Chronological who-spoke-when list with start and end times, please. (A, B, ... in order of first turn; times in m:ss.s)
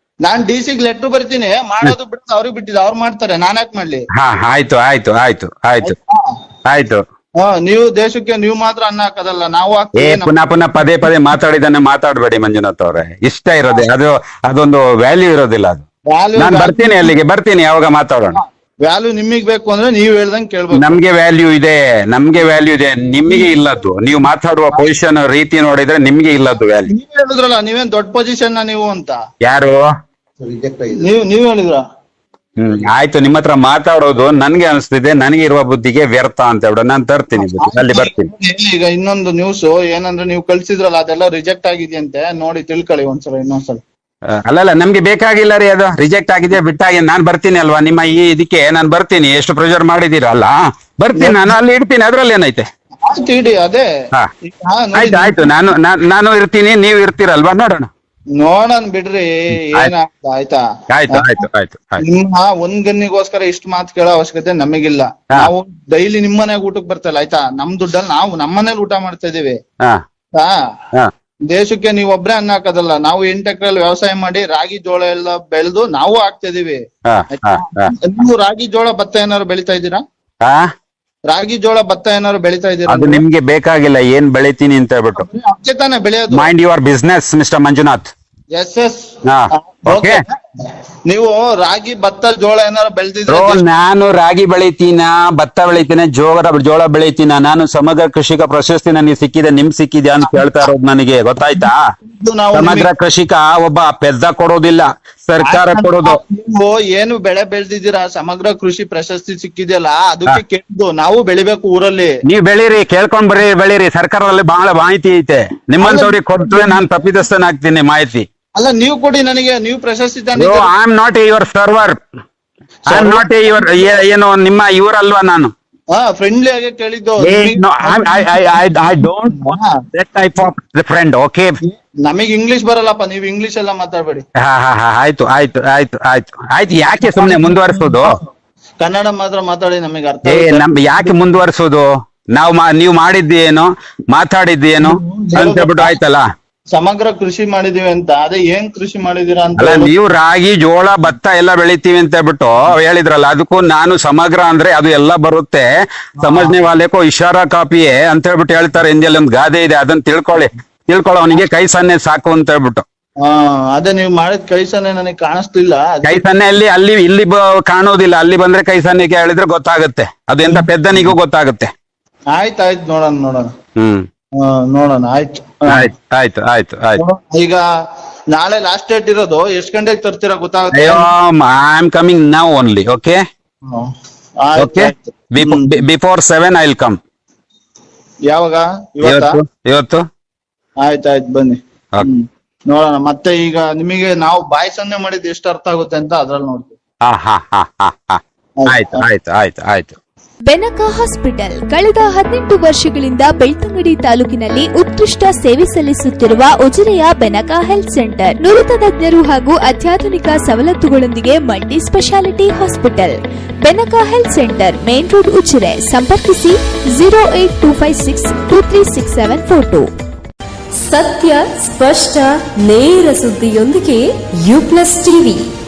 0:00.2-0:04.0 A
0:04.1-0:05.9 B
0:05.8-0:06.3 A
0:06.6-0:07.0 B
0:07.4-0:10.3 A
0:10.0-0:15.8 B
0:16.1-0:17.1 A
0:16.4-0:18.4 B
0:18.3-0:21.0 A
0:20.7-0:26.9 B
0:26.9-0:29.2 A
0:29.4-0:29.8 B
0:30.9-0:31.8 A
0:32.6-0:38.3 B
0:37.4-0:43.8 A
0:44.5-0:52.6 B
0:51.2-0:51.5 A
0:53.0-0:53.8 A
0:54.4-0:55.5 A
0:54.9-0:57.9 B
0:58.4-1:00.6 A
1:00.9-1:02.0 B
1:01.1-1:01.4 A
1:02.0-1:09.6 A
1:11.5-1:16.8 A
1:17.0-1:17.9 B
1:17.3-1:20.0 A
1:21.3-1:23.2 A
1:22.9-1:25.2 B
1:25.2-1:26.5 A
1:26.3-1:28.1 B
1:28.5-1:29.1 A
1:29.2-1:30.2 B
1:29.6-1:30.4 A
1:31.1-1:33.6 A
1:33.3-1:41.8 B
1:41.6-1:42.9 A
1:42.5-1:46.2 B
1:45.4-1:52.1 A
1:52.3-1:58.2 B
1:55.8-1:56.8 A
1:58.6-2:00.7 A
2:00.4-2:02.0 B
2:02.9-2:04.0 A
2:02.9-2:05.5 B
2:05.9-2:09.7 A
2:07.2-2:11.6 B
2:11.6-2:14.2 A
2:14.4-2:18.2 B
2:16.9-2:18.3 A
2:18.8-2:21.3 A
2:20.2-2:26.2 B
2:24.8-2:26.0 A
2:26.7-2:29.9 A
2:29.6-2:35.6 B
2:36.2-2:36.5 A
2:36.2-2:42.8 B
2:43.2-2:46.2 A
2:46.0-2:51.7 B
2:50.4-2:51.1 A
2:52.3-2:53.5 A
2:53.8-2:54.0 B
2:54.4-2:55.9 A
2:55.7-2:57.0 B
2:57.0-2:57.6 A
2:58.3-3:01.1 A
3:00.7-3:03.2 B
3:03.7-3:05.8 A
3:04.6-3:07.0 B
3:08.3-3:09.4 A
3:09.0-3:10.0 B
3:10.8-3:16.8 A
3:17.0-3:20.0 B
3:18.6-3:19.0 A
3:20.5-3:39.9 C
3:40.8-3:45.4 D